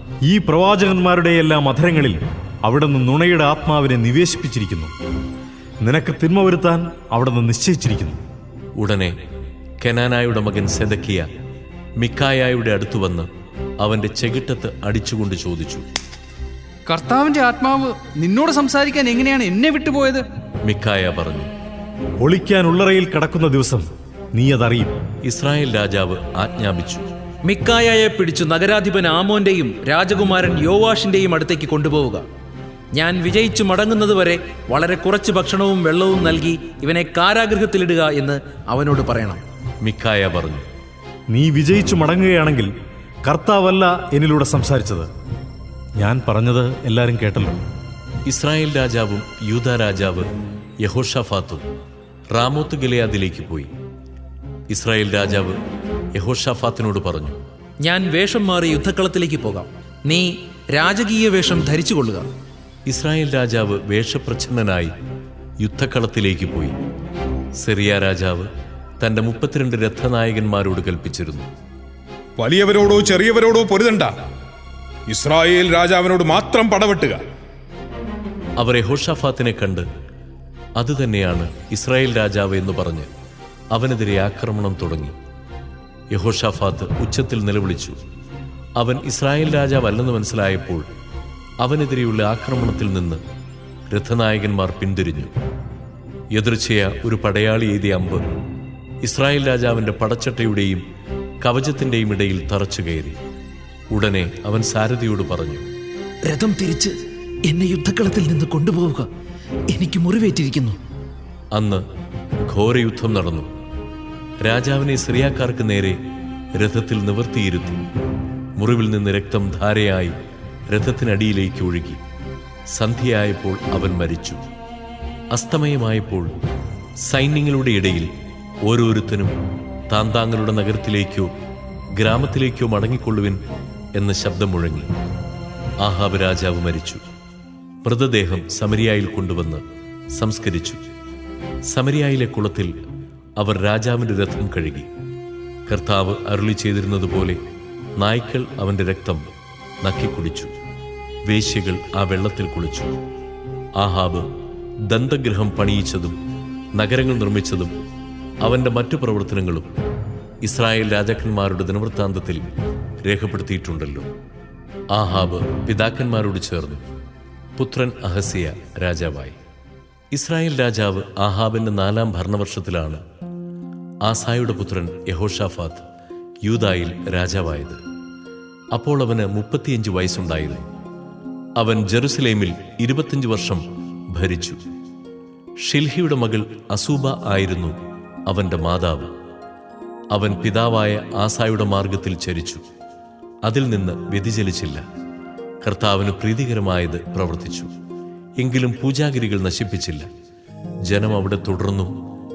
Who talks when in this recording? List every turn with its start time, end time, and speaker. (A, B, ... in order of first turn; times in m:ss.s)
0:00.2-0:04.9 A
0:05.8-0:08.2 A
0:08.8-0:09.1 B
0:09.8-0:11.3 B
0:12.0-0:13.3 B
0:13.8-0:15.8 B
0:16.9-0:20.2 C
0:20.6-0:21.5 B
0:22.2-0:24.9 A
0:25.2-0:27.1 B
0:27.5-0:32.2 D
0:32.9-0:39.4 D
0:39.8-0:40.7 B
0:41.3-0:42.7 A
0:43.2-0:45.1 A
0:46.0-0:47.6 A
0:48.3-0:50.3 B
0:50.8-0:51.6 B
0:52.3-0:53.7 B
0:54.7-0:55.6 B
0:56.1-0:57.4 B
0:57.8-1:02.3 D
1:02.9-1:04.9 B
1:05.6-1:06.8 B
1:07.6-1:08.5 B
1:09.0-1:11.5 B
1:12.4-1:14.1 E
1:15.1-1:17.1 E
1:18.6-1:19.8 B
1:20.8-1:23.1 B
1:23.7-1:25.2 B
1:26.1-1:28.0 B
1:28.8-1:30.8 B
1:31.6-1:33.2 B
1:33.9-1:35.3 B
1:36.4-1:38.2 B
1:39.0-1:40.8 B
1:41.4-1:43.2 B
1:43.9-1:45.6 B
1:46.3-1:49.1 D
1:49.7-1:50.8 D
1:51.5-1:51.8 B
1:52.5-1:53.5 B
1:54.4-1:56.0 B
1:56.6-1:57.8 B
1:58.6-2:00.1 B
2:00.7-2:02.0 B
2:02.7-2:04.4 B
2:05.3-2:06.3 B
2:07.1-2:08.1 B
2:08.6-2:09.4 B
2:09.9-2:11.3 B
2:12.0-2:13.4 B
2:14.0-2:14.9 B
2:15.8-2:17.0 B
2:17.8-2:19.6 B
2:20.1-2:20.8 B
2:21.7-2:22.7 B
2:23.4-2:24.9 B
2:25.7-2:27.4 B
2:28.0-2:29.2 B
2:29.8-2:30.5 B
2:31.3-2:32.9 B
2:33.8-2:34.2 B
2:34.9-2:36.2 B
2:36.8-2:37.7 B
2:38.4-2:39.7 B
2:40.4-2:42.4 B
2:43.0-2:44.1 B
2:44.9-2:46.8 B
2:47.6-2:49.4 B
2:50.1-2:53.0 B
2:54.1-2:55.8 B
2:56.4-2:57.8 B
2:58.7-3:00.6 B
3:01.6-3:03.6 B
3:04.1-3:04.6 B
3:05.6-3:07.7 B
3:08.3-3:09.1 B
3:10.1-3:12.6 B
3:13.4-3:14.8 B
3:15.6-3:17.7 B
3:18.4-3:20.0 B
3:20.9-3:21.9 B